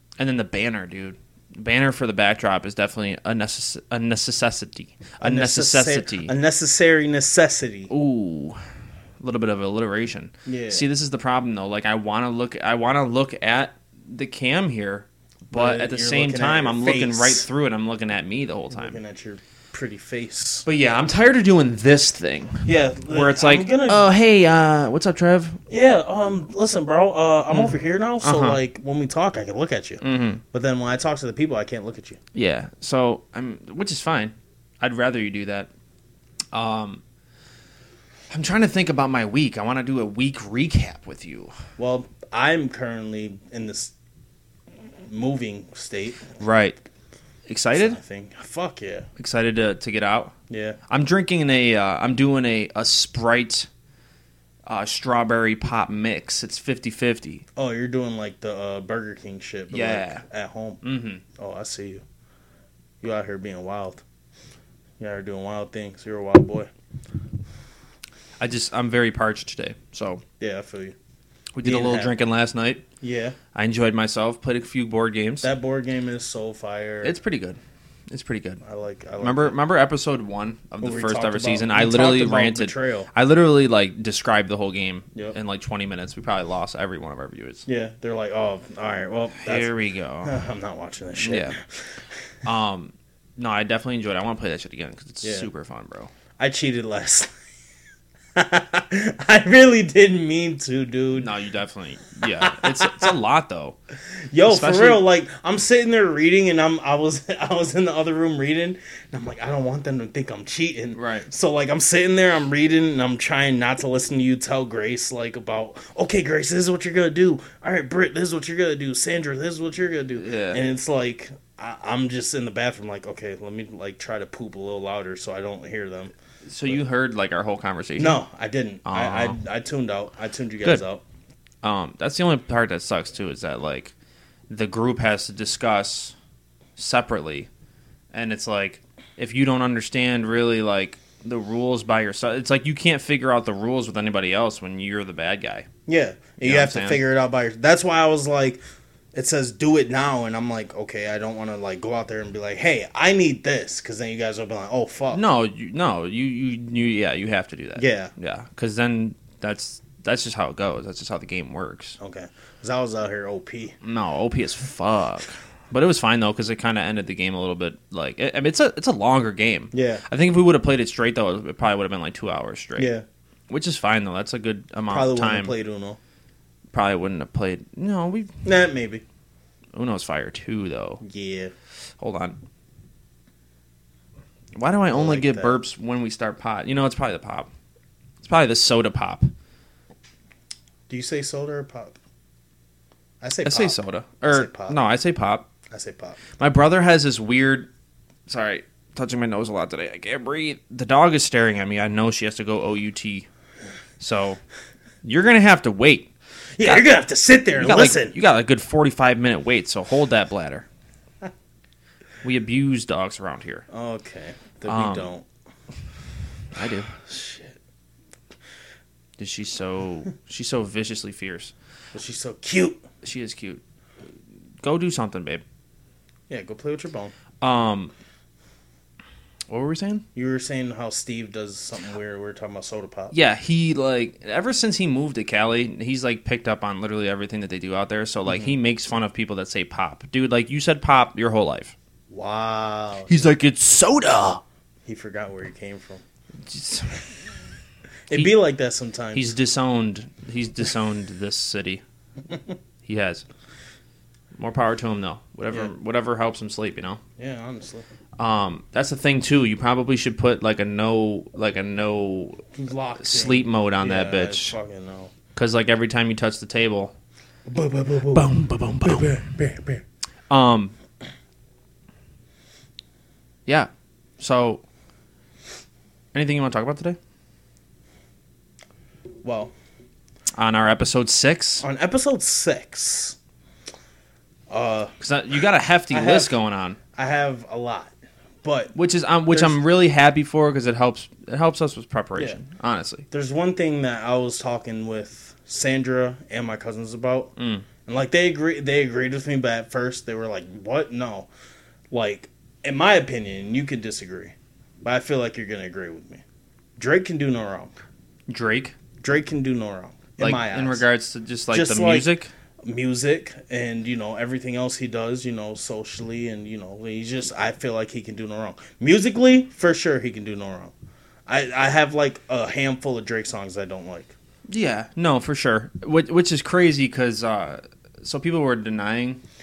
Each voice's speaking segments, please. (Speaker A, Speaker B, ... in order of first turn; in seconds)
Speaker A: 0.2-6.3, 7.9-8.6, 9.2-19.0, 20.7-25.6, 28.2-28.6, 30.0-30.4, 32.3-35.7, 36.5-37.0, 38.3-41.5, 46.4-46.8, 47.5-48.0, 49.2-50.4, 50.9-53.7, 54.7-57.4, 59.7-60.2, 60.8-61.2, 68.4-70.2, 71.5-72.9, 73.5-75.5, 77.0-77.6, 78.1-78.6, 79.2-87.7, 89.4-90.3, 91.2-91.6, 92.5-96.1, 101.1-103.8, 104.5-105.0, 110.9-111.3, 120.2-120.6, 126.5-128.2, 128.8-129.4, 131.6-133.9, 134.5-136.2, 136.8-137.5, 138.1-145.7, 146.4-147.0, 155.1-162.0, 163.8-172.9, 173.5-175.5, 176.7-178.3, 179.8-181.0, 182.0-182.4, 184.6-187.5, 188.2-189.3, 193.4-195.5, 196.4-197.7, 198.3-203.3, 204.0-204.4, 205.0-206.1, 206.6-206.9, 207.6-210.7, 212.2-213.7, 214.7-215.1, 216.6-216.9, 219.2-221.5, 223.0-223.6, 224.6-225.4, 227.4-227.9, 229.5-230.1, 233.1-241.8, 243.1-244.4, 246.5-247.1, 249.2-251.8, 252.8-253.2, 254.4-257.0, 258.2-262.4, 263.0-264.6, 265.4-266.9, 268.1-269.2, 270.3-270.8, 273.5-274.6, 276.1-277.0, 280.3-281.7, 285.0-286.8, 288.8-293.1, 297.4-297.7, 308.3-308.8, 310.2-312.3, 324.5-329.2
Speaker B: 5.2-7.9, 10.4-10.8, 15.5-17.5, 18.7-20.7, 22.6-24.1, 25.7-32.2, 41.8-43.9, 45.0-46.3, 47.7-49.1, 50.5-50.8, 57.6-60.8, 61.4-62.0, 63.0-64.0, 65.0-66.7, 70.4-71.0, 71.6-72.1, 73.0-73.4, 75.4-77.1, 78.6-79.6, 80.8-83.1, 87.7-89.7, 90.2-92.0, 95.2-95.5, 96.4-97.3, 98.3-101.3, 102.3-103.1, 104.3-126.1, 128.0-131.0, 145.9-148.6, 149.1-155.2, 157.8-158.1, 162.0-163.8, 169.7-170.0, 172.8-173.1, 174.9-176.0, 178.4-179.0, 181.0-181.5, 184.9-185.6, 190.9-192.0, 193.2-194.8, 195.7-196.2, 206.6-208.2, 213.7-215.3, 217.0-217.5, 221.9-222.8, 226.3-227.2, 230.2-233.2, 242.1-243.3, 244.9-246.0, 248.1-249.3, 257.2-257.9, 262.6-265.1, 267.5-269.8, 279.2-279.5, 281.6-283.2, 284.5-284.9, 285.9-286.4, 286.9-288.7, 289.3-289.6, 293.1-297.3, 297.9-301.3, 301.9-306.2, 306.8-307.7, 309.0-310.9, 311.5-312.1, 312.6-320.7, 321.3-324.1